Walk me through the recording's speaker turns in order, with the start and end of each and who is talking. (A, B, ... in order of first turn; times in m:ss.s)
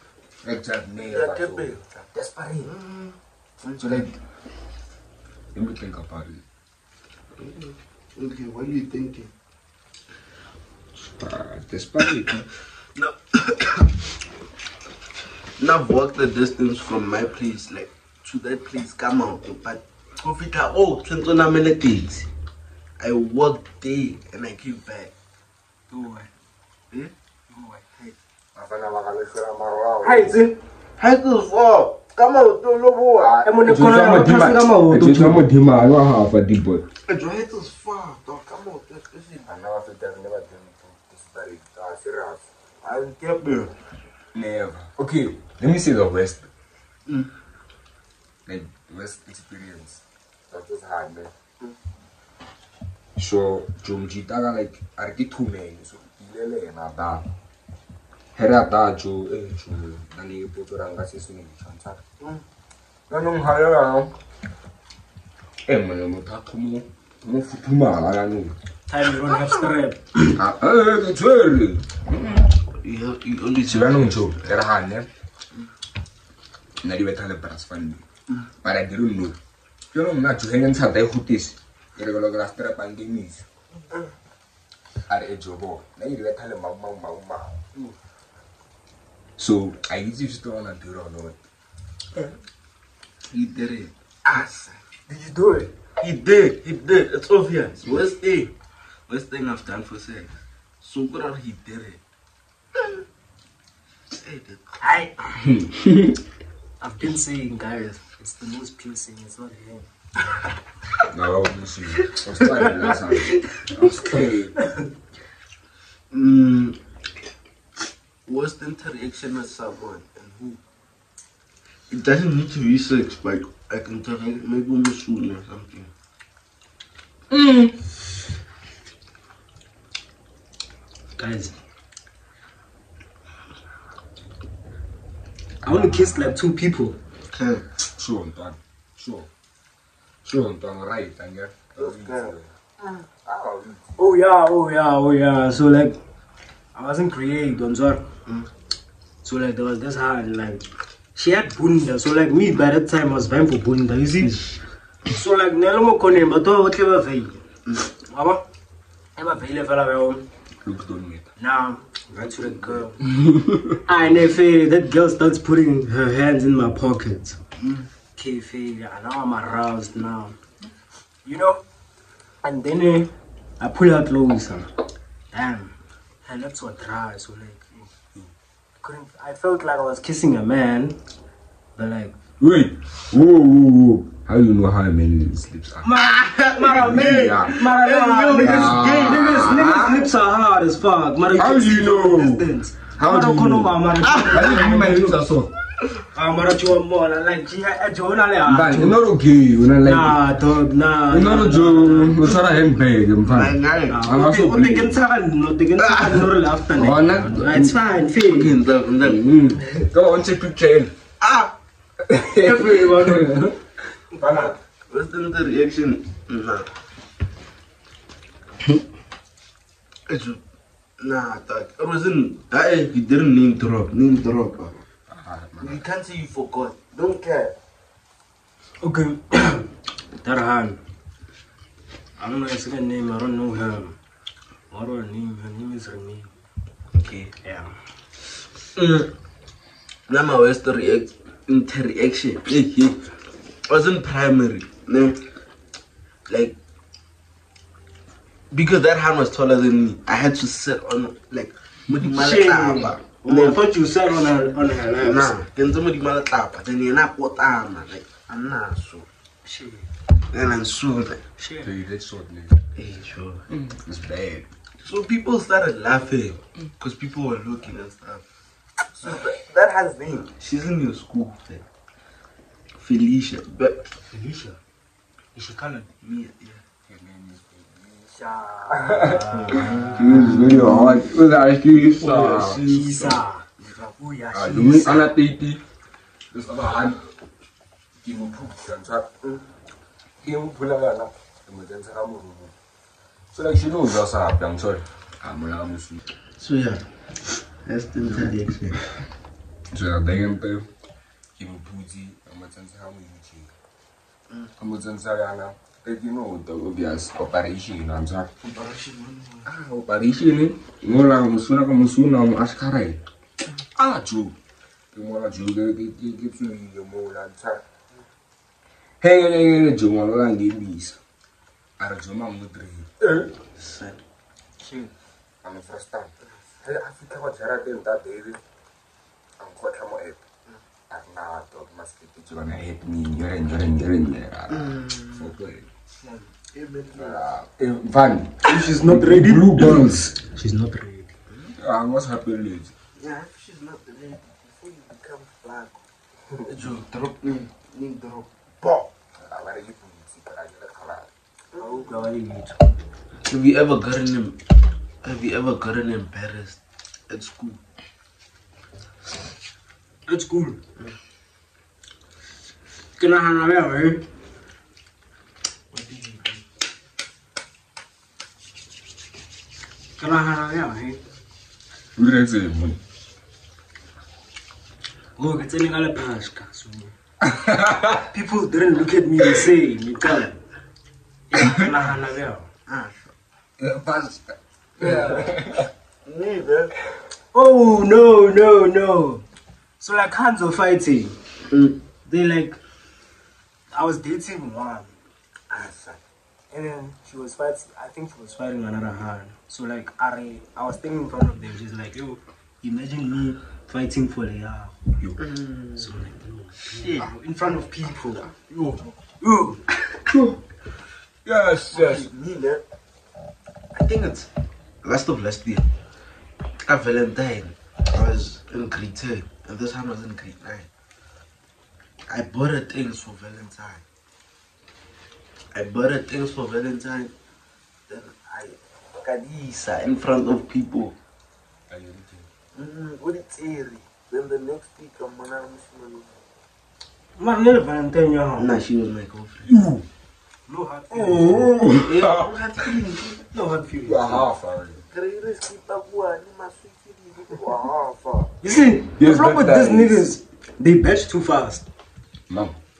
0:00.4-0:02.7 A
0:01.0-0:02.1 B
0:02.6-0:04.1 B
0:03.8-0:04.1 A
0:05.5-0:06.4 A
0:07.4-0:09.3 B
0:11.0-0:12.4 A
0:12.9-0:14.0 B
0:15.6-0:22.3 B
0:23.0-0:25.1 B
0:25.9-0:26.3 C
0:27.5-0:27.8 C
0:28.5-0:30.4 A
0:30.0-0:30.6 C
0:31.0-0:33.4 B
0:33.1-0:36.8 A
0:33.4-0:35.5 C
0:37.1-0:39.5 B
0:39.4-0:42.5 A
0:42.8-0:43.7 B
0:44.3-0:46.5 A
0:48.4-0:51.3 A
0:53.2-0:57.2 A
0:58.3-1:02.0 A
1:03.1-1:04.1 A
1:05.6-1:08.5 A
1:08.9-1:10.3 C
1:10.3-1:12.5 A
1:12.8-1:14.4 B
1:13.6-1:15.1 A
1:16.8-1:18.0 A
1:18.6-1:19.4 A
1:19.9-1:23.4 A
1:25.1-1:27.6 A
1:29.4-1:31.4 A
1:33.3-1:34.8 B
1:35.1-1:35.7 C
1:36.0-1:38.5 B
1:39.1-1:42.0 B
1:44.1-1:45.3 B
1:44.8-1:45.1 C
1:45.4-1:46.2 A
1:46.8-1:49.8 C
1:51.1-1:54.6 A
1:53.1-1:53.4 B
1:54.6-1:54.8 C
1:56.1-1:56.8 B
1:58.2-2:00.6 B
2:01.9-2:05.9 B
2:07.3-2:07.7 A
2:11.2-2:11.5 C
2:15.6-2:16.3 A
2:15.6-2:17.0 C
2:17.3-2:17.6 B
2:17.9-2:19.3 A
2:20.2-2:22.5 A
2:21.8-2:23.0 B
2:23.2-2:24.1 A
2:24.0-2:26.0 C
2:26.7-2:28.0 C
2:29.2-2:30.6 C
2:31.1-2:34.4 C
2:35.1-2:38.4 C
2:39.2-2:40.2 C
2:40.6-2:41.3 A
2:41.4-2:43.0 C
2:42.2-2:42.9 B
2:43.0-2:43.8 A
2:43.9-2:47.4 C
2:47.6-2:47.9 B
2:48.1-2:50.4 C
2:51.2-2:51.6 C
2:52.4-2:54.7 C
2:55.3-2:55.7 C
2:56.2-2:57.9 C
2:58.8-3:01.0 C
3:01.8-3:02.1 C
3:02.4-3:05.9 A
3:05.8-3:15.0 C
3:06.0-3:09.7 B
3:06.7-3:07.6 A
3:08.3-3:10.1 A
3:11.4-3:13.8 A
3:14.0-3:15.2 B
3:14.3-3:15.5 A
3:16.1-3:19.0 C
3:18.4-3:20.2 A
3:19.8-3:22.4 C
3:21.1-3:24.9 A
3:23.2-3:24.1 B
3:23.9-3:28.6 C
3:25.8-3:26.3 B
3:26.7-3:27.8 A
3:28.1-3:29.3 B
3:29.0-3:30.9 A
3:31.2-3:31.5 B
3:32.1-3:33.5 A
3:32.4-3:33.6 C
3:34.2-3:34.6 A
3:34.9-3:36.7 B
3:40.1-3:40.4 B
3:41.0-3:44.7 B
3:45.1-3:45.8 A
3:45.6-3:47.5 B
3:48.8-3:49.7 C
3:50.2-3:50.8 C
3:52.2-3:54.0 C
3:54.7-3:56.3 C
3:56.9-3:57.3 B
3:57.4-3:57.7 C
3:58.8-3:59.1 B
4:00.1-4:03.0 B
4:03.6-4:05.2 B
4:06.3-4:06.6 B
4:08.5-4:13.6 B
4:12.0-4:15.3 C
4:15.0-4:19.1 B
4:19.4-4:19.9 C
4:20.3-4:21.2 B
4:21.4-4:21.7 C
4:21.6-4:22.6 A
4:22.8-4:23.4 B
4:23.5-4:24.5 A
4:24.8-4:28.2 B
4:28.9-4:31.6 B
4:32.8-4:33.9 B
4:34.1-4:34.6 C
4:35.3-4:35.9 C
4:36.0-4:36.6 B
4:36.9-4:38.1 A
4:38.1-4:40.5 C
4:38.7-4:42.6 A
4:39.3-4:41.0 B
4:41.7-4:43.9 B
4:42.5-4:43.4 C
4:44.0-4:45.1 C
4:44.3-4:45.6 A
4:46.3-4:47.0 A
4:48.0-4:49.1 A
4:50.2-4:52.5 A
4:53.3-4:56.0 A
4:56.4-4:56.8 B
4:57.6-4:58.8 B
4:59.7-5:00.7 A
5:01.4-5:03.5 A
5:04.6-5:08.3 A
5:08.4-5:09.5 B
5:09.4-5:13.0 A
5:13.7-5:14.4 A
5:14.9-5:17.6 A
5:19.0-5:21.0 A
5:21.8-5:23.3 A
5:23.5-5:24.0 B
5:24.6-5:24.9 C
5:25.4-5:28.4 A
5:26.2-5:26.5 B
5:29.4-5:30.2 A
5:30.9-5:35.7 A
5:34.5-5:35.4 B
5:36.0-5:37.2 B
5:36.9-5:40.1 A
5:38.4-5:41.1 C
5:41.6-5:42.7 A
5:43.0-5:45.8 B
5:46.4-5:48.9 B
5:49.2-5:51.1 A
5:51.5-5:52.0 B
5:51.6-5:52.6 C
5:53.2-5:54.4 B
5:55.0-5:57.6 B
6:00.1-6:00.6 C
6:03.0-6:04.0 C
6:05.7-6:06.4 B
6:10.0-6:11.0 C
6:12.0-6:12.8 A
6:15.2-6:16.9 C
6:17.2-6:18.0 A
6:18.0-6:20.4 C
6:21.3-6:22.5 C
6:22.7-6:23.1 B
6:23.6-6:25.7 A
6:24.8-6:25.3 B
6:26.0-6:26.8 B
6:27.3-6:29.2 C
6:29.8-6:31.2 C
6:31.5-6:31.8 B
6:32.0-6:32.6 C
6:33.7-6:34.9 C
6:35.5-6:36.0 B
6:36.5-6:44.8 C
6:45.2-6:45.9 B
6:45.8-6:48.2 C
6:46.6-6:47.1 B
6:48.0-6:49.0 B
6:49.2-6:49.6 C
6:50.1-6:50.4 A
6:51.2-6:52.1 A
6:51.7-6:52.6 B
6:53.7-6:54.3 B
6:54.8-6:55.6 B
6:56.6-7:00.7 B
7:02.1-7:03.8 B
7:05.5-7:07.1 B
7:07.9-7:10.9 B
7:11.7-7:12.3 A
7:12.5-7:16.2 B
7:17.2-7:18.5 C
7:18.4-7:19.6 B
7:19.4-7:19.8 A
7:20.5-7:21.5 C
7:20.9-7:22.6 A
7:21.8-7:23.2 B
7:23.3-7:24.2 C
7:23.8-7:24.8 A
7:24.9-7:28.3 B
7:28.4-7:31.6 C
7:29.0-7:30.1 A
7:32.3-7:32.6 A